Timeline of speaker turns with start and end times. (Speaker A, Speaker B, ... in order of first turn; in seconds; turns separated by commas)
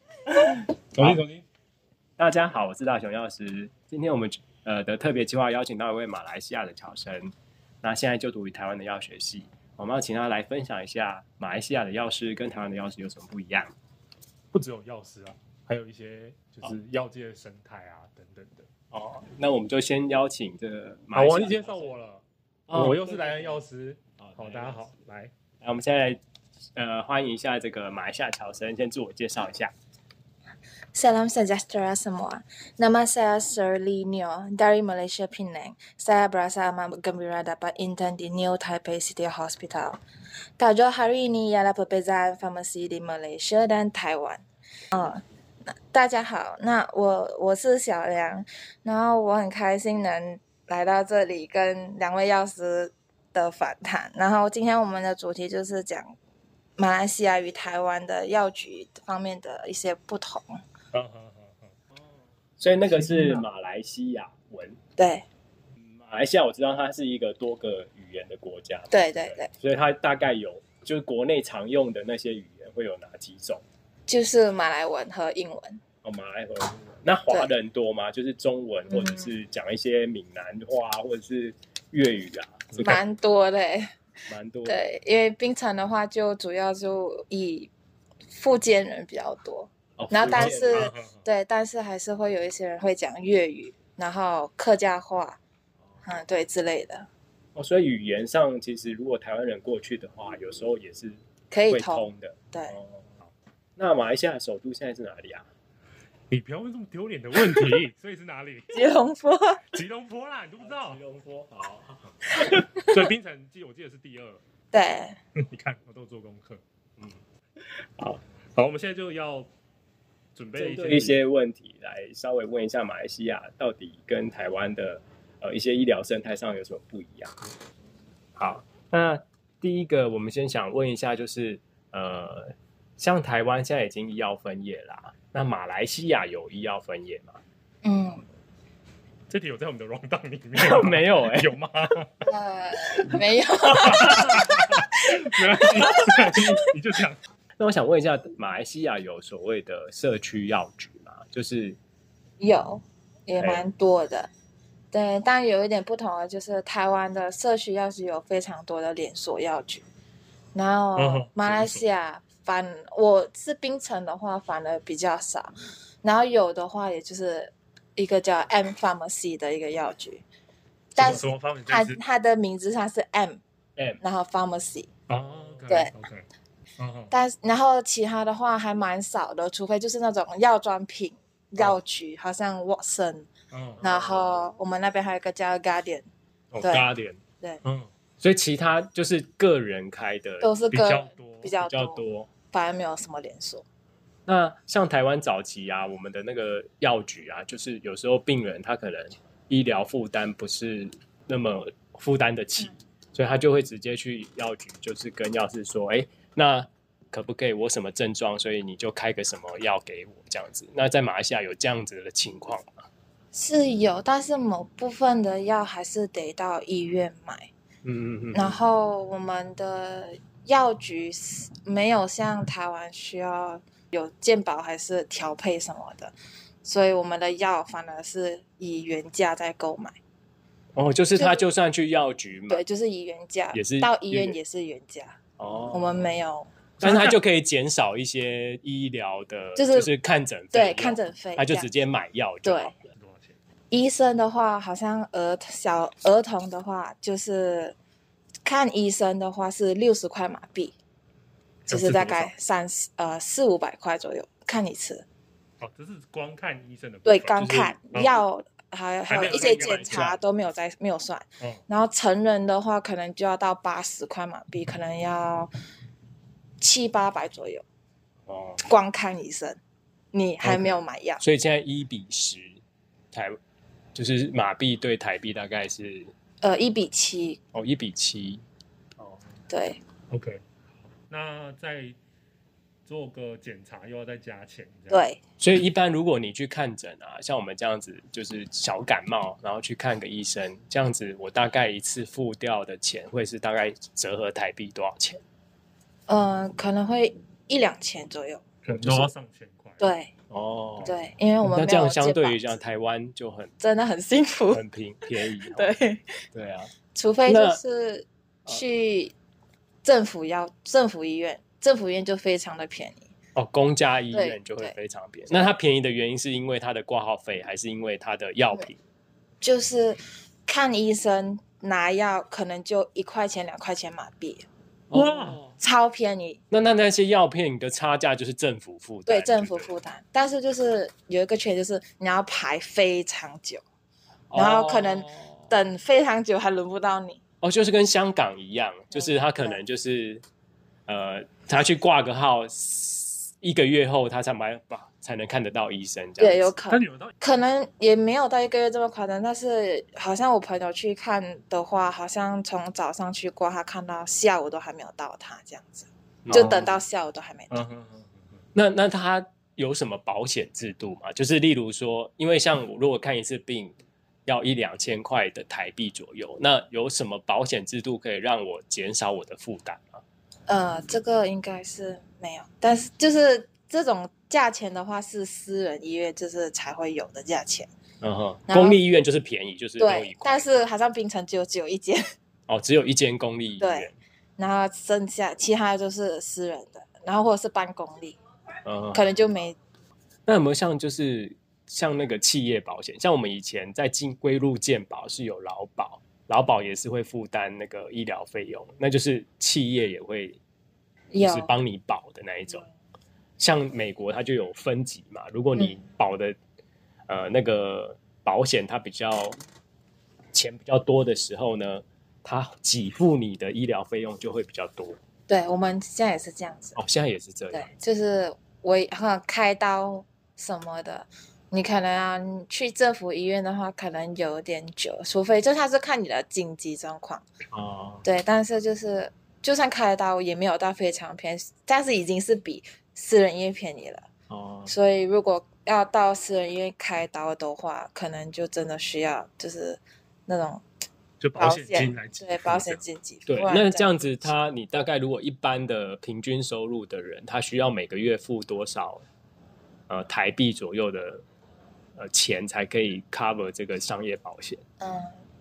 Speaker A: 0.3-1.4, Speaker B: 1.0-1.2, Speaker B: 2.2-13.7, Speaker A: 14.5-18.7, Speaker B: 18.9-21.9, Speaker A: 21.1-25.3, Speaker B: 22.7-23.6, Speaker B: 24.2-24.8, Speaker B: 25.6-26.2, Speaker B: 26.8-29.7, Speaker C: 30.9-40.0, Speaker C: 40.6-56.1, Speaker C: 56.8-60.6, Speaker A: 60.9-61.8, Speaker B: 62.6-64.8, Speaker A: 62.9-63.5, Speaker C: 65.0-65.2, Speaker B: 66.1-73.6, Speaker C: 68.9-69.5, Speaker C: 74.1-75.8, Speaker B: 76.0-83.0, Speaker C: 78.9-79.3, Speaker A: 82.7-83.0, Speaker C: 82.8-83.9, Speaker B: 84.3-84.8, Speaker C: 84.6-87.7, Speaker C: 88.3-95.4, Speaker B: 90.0-90.9, Speaker A: 90.3-91.2, Speaker C: 96.0-97.1, Speaker B: 97.5-103.0, Speaker C: 101.5-102.7, Speaker B: 103.8-105.5, Speaker A: 106.3-108.8, Speaker C: 108.7-109.6, Speaker A: 109.7-111.0, Speaker B: 110.6-112.0, Speaker A: 112.3-114.4, Speaker C: 112.4-112.8, Speaker C: 114.7-115.2, Speaker A: 115.3-116.6, Speaker A: 118.5-119.5, Speaker A: 120.3-121.2, Speaker B: 120.5-127.3, Speaker B: 128.4-137.4, Speaker C: 137.8-138.2, Speaker A: 139.3-142.2, Speaker B: 140.6-141.5, Speaker C: 142.2-144.5, Speaker A: 143.7-147.2, Speaker C: 145.6-146.4, Speaker B: 147.6-151.8, Speaker C: 152.4-154.3, Speaker B: 153.4-153.6, Speaker C: 154.9-159.8, Speaker C: 160.5-165.5, Speaker A: 160.9-161.8, Speaker C: 166.0-170.2, Speaker C: 170.9-173.4, Speaker A: 171.0-172.0, Speaker C: 174.0-174.9, Speaker A: 175.1-176.3, Speaker B: 175.3-175.6, Speaker A: 176.8-177.1, Speaker C: 177.1-183.3, Speaker A: 183.5-184.5, Speaker C: 183.8-186.1, Speaker C: 186.6-186.9, Speaker B: 186.6-187.2, Speaker A: 187.6-187.9, Speaker B: 188.2-190.5, Speaker C: 190.4-193.6, Speaker A: 190.7-191.5, Speaker B: 191.6-192.3, Speaker B: 194.3-212.9, Speaker C: 213.3-217.5, Speaker B: 217.8-218.6, Speaker C: 218.3-229.9, Speaker B: 230.8-232.6, Speaker C: 231.1-231.4, Speaker C: 232.5-235.2, Speaker B: 233.5-234.4, Speaker B: 235.4-236.2, Speaker C: 235.7-236.5, Speaker A: 236.8-237.2, Speaker B: 236.8-242.9, Speaker C: 239.6-239.9, Speaker C: 240.5-241.7, Speaker C: 242.4-242.7, Speaker A: 242.9-243.3, Speaker C: 243.7-247.8, Speaker C: 248.4-250.7, Speaker A: 251.7-252.3, Speaker C: 251.7-255.1, Speaker A: 255.6-258.2, Speaker C: 257.1-265.5, Speaker A: 259.1-260.2, Speaker B: 259.1-260.1, Speaker C: 266.6-267.6, Speaker B: 268.3-268.6, Speaker C: 268.6-269.6, Speaker C: 270.1-271.2, Speaker B: 270.4-272.6, Speaker B: 273.9-276.1, Speaker C: 276.4-277.4, Speaker B: 277.5-278.4, Speaker C: 279.5-279.8, Speaker A: 280.1-280.4, Speaker A: 281.1-282.0, Speaker A: 282.9-285.1, Speaker C: 284.9-285.2, Speaker B: 285.4-295.2, Speaker C: 296.1-298.4, Speaker A: 298.6-299.9, Speaker B: 298.7-299.1, Speaker C: 299.8-300.1, Speaker B: 300.3-300.9, Speaker C: 300.8-302.6, Speaker B: 301.4-303.5, Speaker C: 303.6-304.6, Speaker B: 304.5-305.7, Speaker C: 305.4-306.1, Speaker B: 306.3-306.7, Speaker C: 306.9-309.1, Speaker B: 307.3-307.6, Speaker C: 309.8-313.1, Speaker B: 313.3-318.8, Speaker C: 314.1-314.7, Speaker C: 319.4-324.4, Speaker B: 324.9-325.5, Speaker A: 324.9-325.5, Speaker C: 325.6-326.4, Speaker B: 326.5-329.7, Speaker C: 329.1-333.6, Speaker B: 334.3-335.5, Speaker C: 334.3-337.2, Speaker B: 337.4-340.2, Speaker C: 338.9-339.6, Speaker B: 340.9-346.5, Speaker C: 346.2-357.6, Speaker A: 346.7-347.1, Speaker B: 356.2-356.6, Speaker A: 356.3-356.8, Speaker A: 357.5-358.2, Speaker B: 358.5-363.7, Speaker B: 364.3-370.0, Speaker C: 370.5-377.7, Speaker B: 378.0-380.6, Speaker C: 378.5-378.8, Speaker C: 379.8-382.0, Speaker B: 382.5-384.0, Speaker C: 383.6-388.2, Speaker B: 388.6-389.0, Speaker C: 388.9-389.6, Speaker B: 390.2-400.4, Speaker C: 401.1-401.5, Speaker B: 401.2-402.6, Speaker B: 403.4-406.4, Speaker B: 407.1-409.4, Speaker B: 410.3-415.0, Speaker C: 415.3-416.8, Speaker B: 416.8-417.7, Speaker C: 417.5-427.2, Speaker B: 427.5-428.0, Speaker C: 428.0-434.1, Speaker B: 434.3-434.7, Speaker C: 434.7-440.6, Speaker A: 441.2-442.8, Speaker C: 441.4-444.3, Speaker B: 443.3-449.0, Speaker B: 449.9-451.2, Speaker B: 451.9-454.6, Speaker C: 454.8-455.1